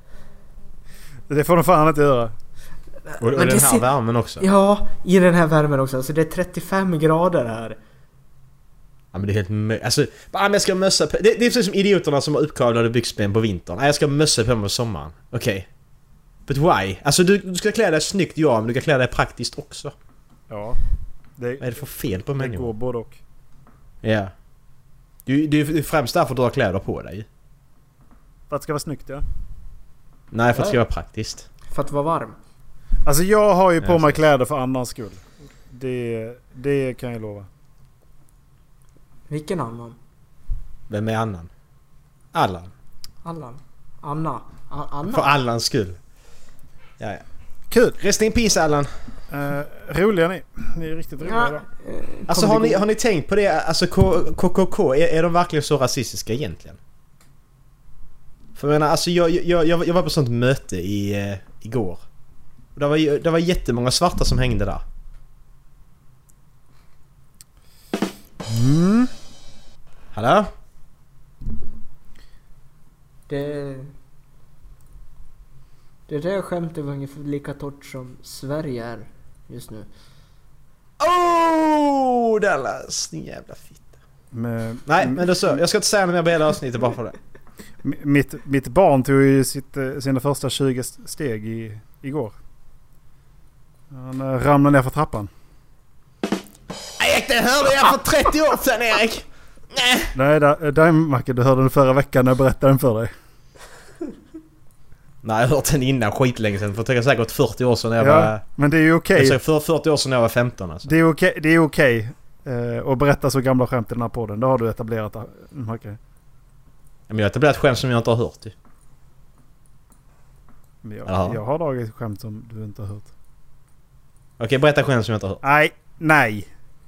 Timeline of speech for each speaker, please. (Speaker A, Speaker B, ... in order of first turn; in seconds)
Speaker A: 1.3-2.3, 20.5-20.8, 21.4-23.2, 28.5-29.2, 33.0-37.5, 47.7-48.0, 49.3-51.6, 68.4-69.1, 84.3-85.6, 87.8-92.3, 93.9-95.3, 100.1-103.1, 108.0-109.4, 110.8-116.0, 120.8-123.1, 125.4-126.5
Speaker B: 3.1-3.9, 4.4-7.8, 31.7-32.4, 39.3-40.0, 43.2-45.3, 51.2-52.8, 73.3-73.9, 76.1-79.9
Speaker C: 3.2-4.4, 9.1-15.7, 16.5-19.9, 21.6-22.7, 24.0-24.3, 25.2-27.2, 30.3-31.5, 33.8-34.2, 40.9-41.5, 42.3-42.7, 45.1-46.0, 48.0-48.9, 52.3-56.8, 58.5-62.0, 62.7-64.8, 70.1-70.5, 81.0-83.9, 84.8-87.2, 97.0-100.1, 105.2-108.4, 109.1-110.9, 117.1-118.5, 121.0-121.4, 124.4-125.4